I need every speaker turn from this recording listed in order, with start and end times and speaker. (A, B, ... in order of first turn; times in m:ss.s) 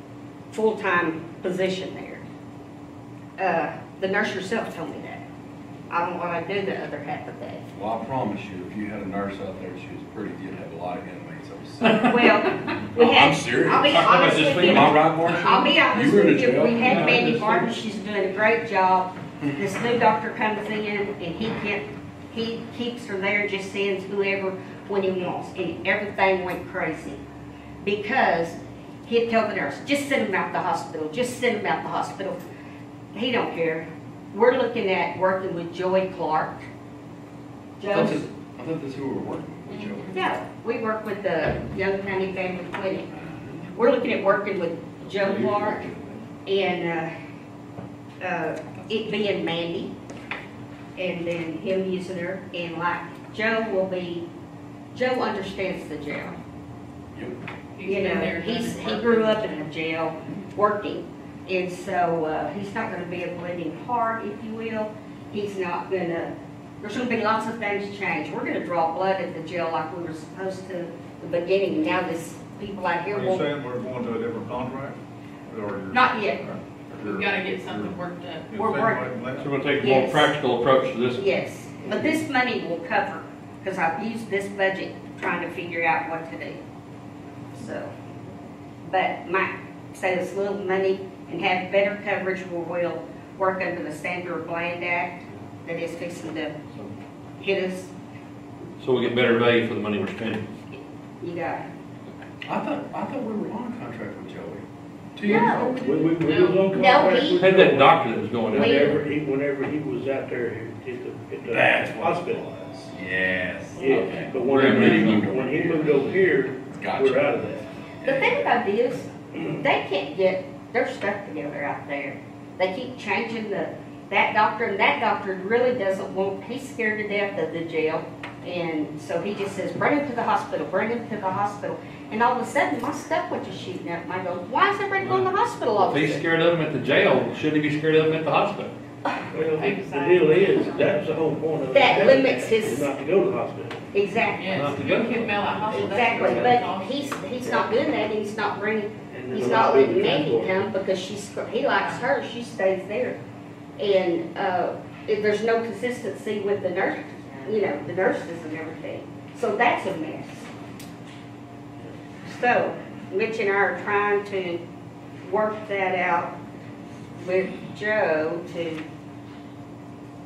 0:00.5-0:02.2 A
0:03.4-0:05.2 A
0:05.9-0:07.6 A
0:07.7-0:12.1 B
0:11.9-0:27.2 A
0:13.0-0:17.2 B
0:13.9-0:15.6 C
0:16.8-0:17.8 C
0:27.8-0:32.4 A
0:33.1-0:36.7 A
0:37.8-0:38.2 A
0:37.9-0:40.2 B
0:39.8-0:40.0 D
0:40.1-0:43.1 A
0:43.7-0:45.8 A
0:45.1-0:46.2 C
0:46.5-0:47.1 A
0:48.2-0:50.0 A
0:51.0-0:54.3 A
0:54.9-0:56.4 A
0:57.1-0:57.4 B
0:57.7-0:59.7 D
0:57.8-1:13.5 A
1:13.1-1:18.0 E
1:15.9-1:16.4 A
1:16.9-1:18.5 D
1:18.5-1:19.6 E
1:18.5-1:19.1 A
1:19.4-1:21.2 C
1:19.8-1:20.3 A
1:21.2-1:26.6 A
1:27.5-1:27.9 A
1:28.8-1:36.6 A
1:37.4-1:37.9 A
1:38.8-1:40.4 C
1:41.2-1:41.7 A
1:42.4-1:44.6 B
1:45.2-1:45.7 B
1:45.2-1:45.8 A
1:45.7-1:52.4 F
1:46.2-1:46.7 D
1:46.7-1:47.4 A
1:47.4-1:49.0 C
1:48.5-1:49.0 A
1:51.5-1:56.2 B
1:53.8-1:57.6 F
1:54.4-1:55.3 C
1:56.7-1:57.4 B
1:58.0-2:16.3 A
2:15.0-2:18.7 C
2:19.3-2:23.8 F
2:19.5-2:20.7 D
2:21.7-2:22.9 A
2:23.9-2:24.5 A
2:24.3-2:27.3 D
2:24.5-2:25.3 C
2:25.7-2:33.2 A
2:26.1-2:26.6 F
2:29.1-2:30.7 F
2:31.8-2:32.0 D
2:33.8-2:40.5 A
2:42.2-2:44.6 A
2:45.2-2:46.4 A
2:47.2-2:48.9 A